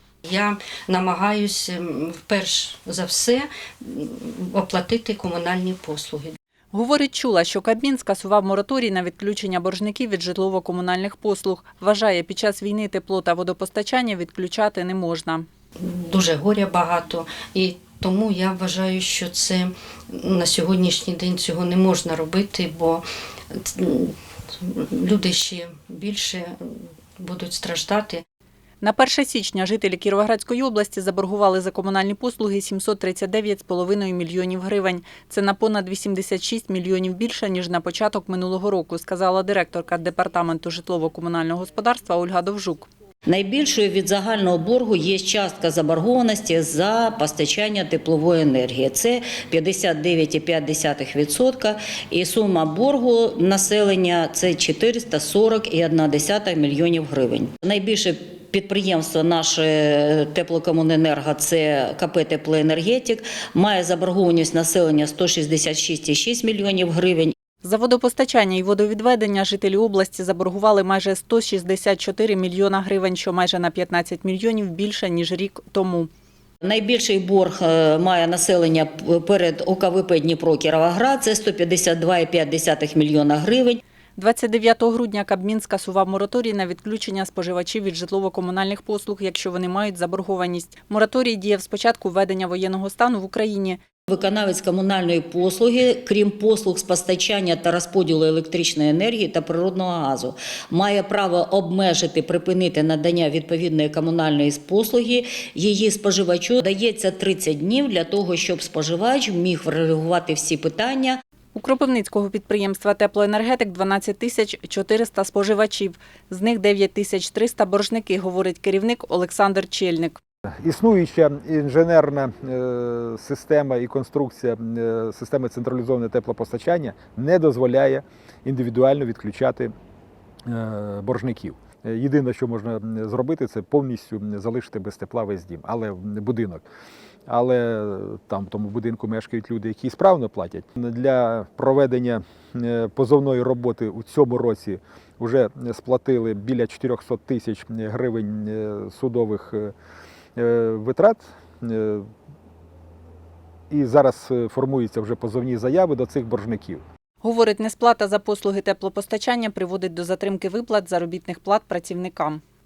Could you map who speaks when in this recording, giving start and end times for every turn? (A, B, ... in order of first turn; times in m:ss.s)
0:00.3-0:06.4 A
0:06.7-0:15.5 B
0:15.8-0:28.2 A
0:28.8-0:42.9 B
0:43.3-1:07.3 C
1:07.6-1:16.1 B
1:16.6-1:23.8 C
1:24.2-1:33.8 B
1:34.1-1:51.2 C
1:51.6-2:00.2 B
2:00.6-2:09.7 D
2:10.5-2:16.6 D
2:17.3-2:29.7 D
2:30.4-2:32.1 D
2:33.7-2:36.8 D
2:37.2-2:42.4 B